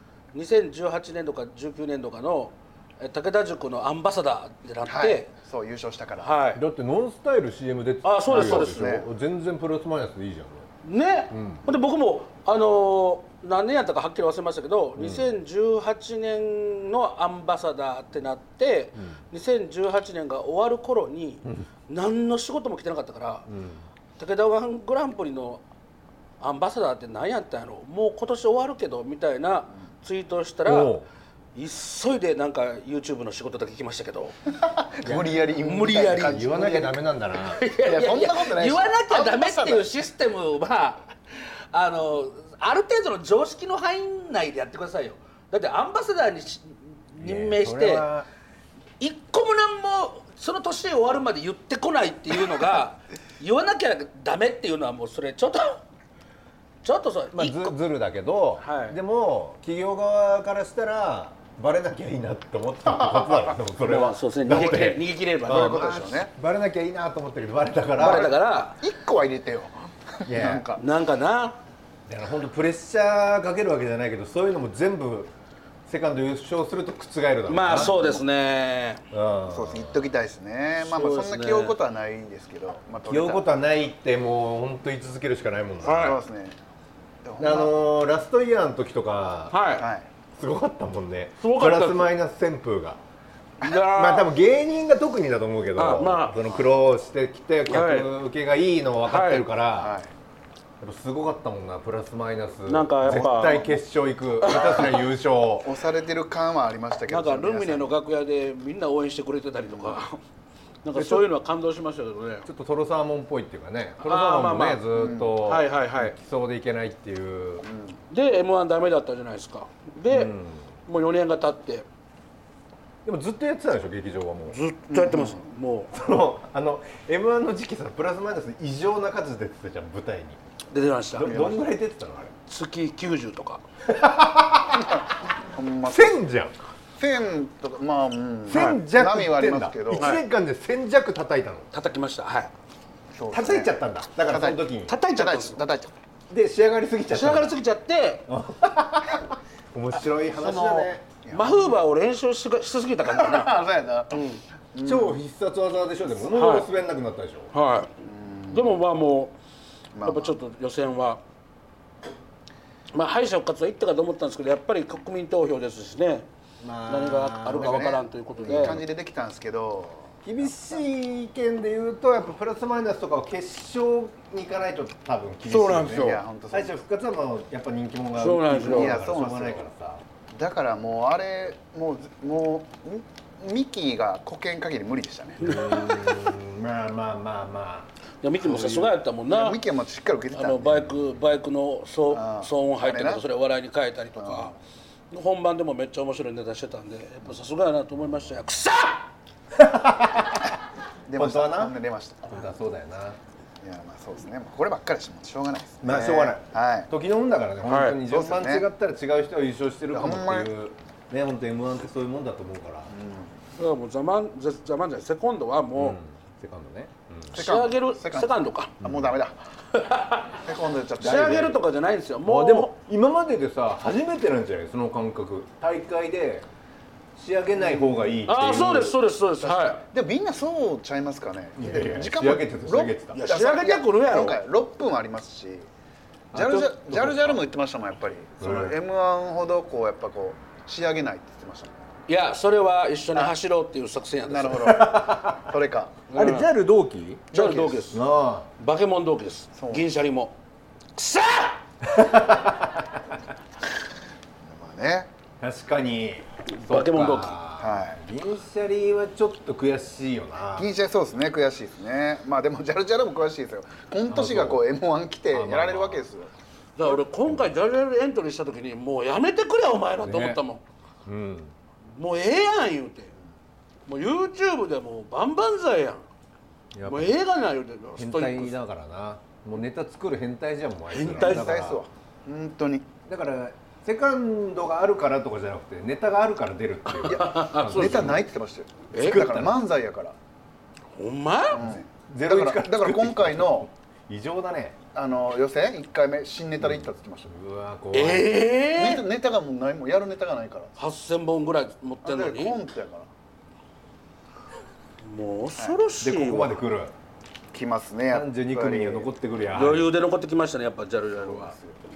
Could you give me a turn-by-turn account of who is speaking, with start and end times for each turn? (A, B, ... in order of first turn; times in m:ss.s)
0:00.3-0:05.3 A
0:04.9-0:06.4 B
0:06.2-0:06.6 A
0:06.6-0:10.7 C
0:08.0-0:08.8 A
0:08.3-0:09.1 B
0:10.8-0:23.5 A
0:11.3-0:11.6 C
0:15.0-0:15.3 C
0:23.5-0:23.8 C
0:24.2-0:25.6 A
0:26.4-0:30.9 A
0:30.6-0:31.0 C
0:31.5-0:34.4 A
0:34.6-0:37.0 B
0:35.0-0:35.3 C
0:35.6-0:36.4 A
0:36.3-0:37.6 C
0:37.5-0:48.1 A
0:37.8-0:39.9 B
0:47.2-0:48.3 C
0:49.0-0:55.8 A
0:56.8-0:57.8 A
0:57.3-1:08.3 C
0:58.6-0:59.0 A
1:03.8-1:05.9 A
1:05.4-1:06.3 B
1:08.0-1:08.8 A
1:08.0-1:10.8 B
1:10.2-1:10.6 C
1:10.7-1:11.6 A
1:12.1-1:15.3 C
1:15.9-1:17.9 C
1:17.5-1:19.0 A
1:17.7-1:18.2 B
1:19.1-1:20.0 C
1:19.5-1:23.6 B
1:20.8-1:21.8 A
1:23.0-1:26.2 C
1:25.8-1:26.2 A
1:25.9-1:26.6 B
1:27.2-1:27.8 B
1:27.4-1:29.6 C
1:29.5-1:29.9 A
1:29.8-1:30.1 B
1:30.3-1:33.0 C
1:31.4-1:32.1 A
1:33.6-1:34.3 A
1:33.9-1:40.0 C
1:35.8-1:36.4 A
1:37.7-1:38.1 A
1:39.0-1:39.5 A
1:39.8-1:40.1 B
1:40.8-1:45.7 C
1:42.6-1:43.7 A
1:43.0-1:43.7 B
1:44.4-1:44.9 A
1:45.6-1:47.9 B
1:47.1-1:50.2 A
1:49.7-1:50.0 B
1:50.8-1:52.5 A
1:50.9-1:51.3 C
1:52.4-1:57.7 C
1:54.0-1:54.9 A
1:54.9-1:55.3 B
1:55.4-1:56.1 A
1:57.6-1:58.0 B
1:58.1-2:00.3 A
2:00.1-2:00.7 C
2:00.8-2:01.8 A
2:03.0-2:04.6 C
2:04.5-2:05.9 A
2:04.9-2:05.4 B
2:05.9-2:10.4 C
2:10.7-2:11.5 A
2:11.2-2:12.3 C
2:11.2-2:11.7 B
2:12.5-2:13.6 A
2:13.8-2:15.0 C
2:14.8-2:16.2 B
2:15.9-2:16.5 C
2:17.0-2:20.1 B
2:18.5-2:21.7 C
2:20.0-2:20.2 A
2:21.7-2:22.5 A
2:23.1-2:24.6 B
2:23.3-2:24.9 C
2:24.9-2:25.6 A
2:25.1-2:25.9 B
2:26.3-2:27.5 C
2:27.1-2:28.3 A
2:28.3-2:31.0 C
2:30.4-2:33.6 A
2:31.2-2:31.7 B
2:33.0-2:35.2 B
2:34.1-2:34.4 A
2:34.8-2:37.5 C
2:36.3-2:36.7 A
2:37.5-2:37.9 A
2:38.0-2:38.8 B
2:38.5-2:39.3 A
2:39.9-2:40.3 B
2:40.0-2:41.2 A
2:42.9-2:46.3 A
2:46.6-2:47.9 C
2:46.9-2:48.8 A
2:47.5-2:50.6 B
2:48.5-2:48.8 C
2:50.2-3:00.0 C
2:55.5-2:56.2 A
2:55.9-2:56.8 B
2:58.2-2:59.0 A
2:58.6-2:59.6 B
3:00.3-3:05.7 B
3:05.4-3:07.9 C
3:05.4-3:06.1 A
3:08.2-3:09.6 A
3:08.4-3:08.9 C
3:09.3-3:10.9 B
3:10.3-3:14.6 A
3:12.1-3:13.2 B
3:14.2-3:14.5 B
3:15.1-3:19.0 A
3:19.5-3:20.5 C
3:21.1-3:22.5 B
3:21.1-3:21.8 C
3:22.3-3:23.2 C
3:23.6-3:26.9 B
3:25.8-3:32.9 C
3:27.6-3:28.0 A
3:28.0-3:28.6 B
3:29.9-3:30.5 B
3:32.9-3:33.3 B
3:33.5-3:36.0 A
3:35.8-3:37.4 C
3:37.3-3:39.4 B
3:37.3-3:38.7 A
3:38.8-3:39.2 C
3:39.7-3:40.4 A
3:40.4-3:41.6 B
3:41.0-3:42.7 A
3:41.0-3:41.5 C
3:42.2-3:46.5 C
3:47.2-3:49.0 C
3:47.5-3:48.1 B
3:48.2-3:49.8 A
3:49.4-3:55.7 B
3:51.6-3:53.2 C
3:53.1-3:54.4 A
3:56.3-3:57.4 C
3:56.3-4:01.8 B
3:58.4-3:58.7 C
4:02.1-4:04.8 A
4:04.2-4:06.0 B
4:04.6-4:05.4 C
4:06.1-4:06.5 A
4:06.1-4:07.3 C
4:07.3-4:07.9 B
4:07.3-4:08.0 A
4:07.9-4:08.5 C
4:08.6-4:10.4 A
4:09.6-4:09.8 B
4:11.0-4:11.6 A
4:11.8-4:13.1 C
4:14.4-4:15.1 B
4:15.4-4:20.7 C
4:16.5-4:17.4 A
4:17.6-4:18.0 B
4:20.6-4:26.3 B
4:24.1-4:24.6 C
4:25.3-4:26.1 C
4:26.8-4:30.6 A
4:30.0-4:30.4 C
4:31.0-4:31.5 C
4:31.9-4:33.1 A
4:33.9-4:36.0 A
4:36.7-4:37.2 C
4:36.8-4:38.6 A
4:38.0-4:41.8 C
4:40.9-4:41.5 A
4:41.1-4:42.9 B
4:43.0-4:48.3 C
4:47.0-4:48.2 A
4:47.0-4:50.1 B
4:48.9-4:49.2 A
4:49.0-4:49.6 C
4:51.0-4:51.6 A
4:51.5-4:53.7 B
4:51.6-4:54.8 C
4:54.9-4:57.3 B
4:56.6-4:58.4 C
4:57.9-4:59.0 A
4:58.7-5:00.7 B
5:00.8-5:02.6 A
5:02.0-5:03.1 B
5:05.0-5:06.6 A
5:06.0-5:06.9 C
5:07.5-5:09.1 B
5:08.1-5:09.9 C
5:09.5-5:11.5 A
5:11.2-5:11.8 B